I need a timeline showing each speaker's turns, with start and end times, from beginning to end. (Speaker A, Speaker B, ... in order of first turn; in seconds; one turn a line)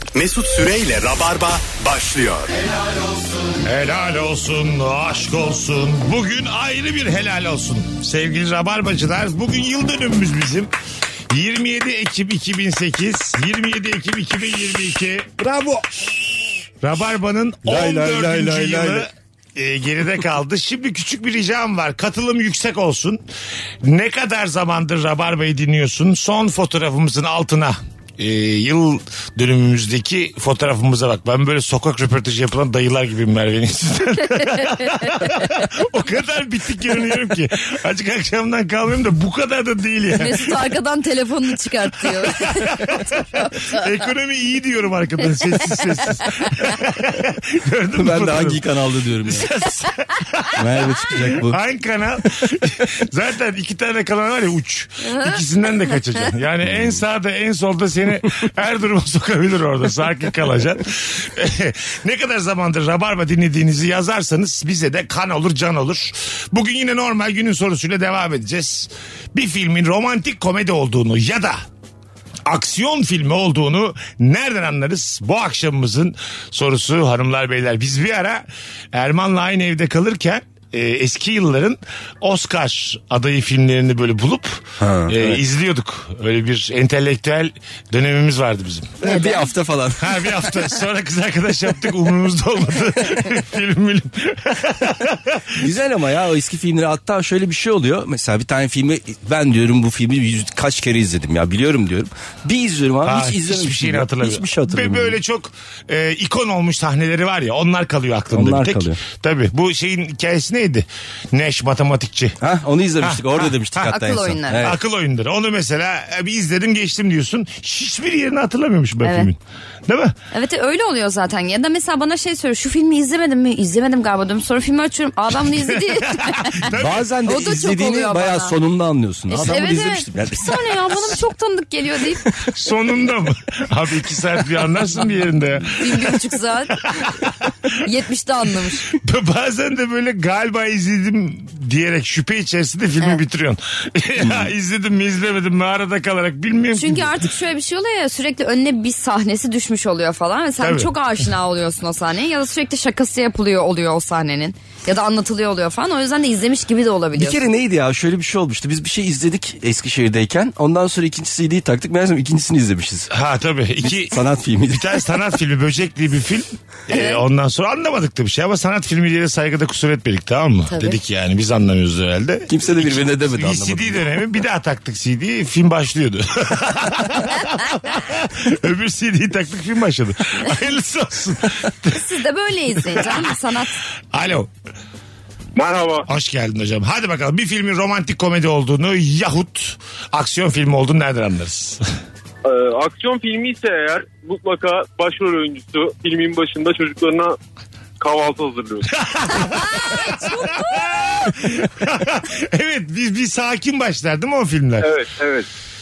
Speaker A: 0.1-2.5
Speaker B: 3.6-10.7
Speaker B: 11.3-23.2
Speaker C: 17.7-19.1
Speaker B: 23.8-40.6
Speaker D: 35.0-35.4
Speaker D: 40.1-43.8
Speaker B: 42.1-48.6
Speaker D: 45.7-46.7
Speaker C: 48.0-49.5
Speaker B: 49.3-71.6
Speaker C: 50.6-51.6
Speaker D: 55.0-55.9
Speaker B: 72.5-89.0
Speaker C: 84.8-85.4
Speaker C: 89.0-90.2
Speaker D: 89.0-89.5
Speaker B: 90.0-95.7
Speaker C: 95.6-105.2
Speaker B: 103.0-112.4
Speaker C: 108.3-109.0
Speaker C: 112.4-114.8
Speaker B: 113.0-114.0
Speaker D: 113.9-114.7
Speaker B: 114.5-120.2
Speaker D: 119.0-119.3
Speaker D: 120.3-126.7
Speaker B: 125.6-127.1
Speaker C: 126.7-131.2
Speaker D: 127.2-128.6
Speaker D: 129.3-132.3
Speaker B: 132.5-136.2
Speaker D: 135.7-137.0
Speaker B: 136.9-137.5
Speaker D: 137.8-138.9
Speaker B: 138.9-147.1
Speaker D: 146.8-157.4
Speaker B: 150.6-150.9
Speaker C: 157.1-163.1
Speaker B: 163.1-182.0
Speaker C: 164.0-165.0
Speaker D: 166.9-167.2
Speaker D: 170.7-171.0
Speaker C: 172.5-174.1
Speaker D: 181.9-183.8
Speaker B: 182.8-183.3
Speaker B: 184.1-184.5
Speaker E: 185.6-186.1
Speaker B: 186.1-191.8
Speaker E: 192.4-197.4
Speaker E: 198.0-198.9
Speaker B: 198.9-204.9
Speaker D: 199.4-201.1
Speaker E: 204.8-205.5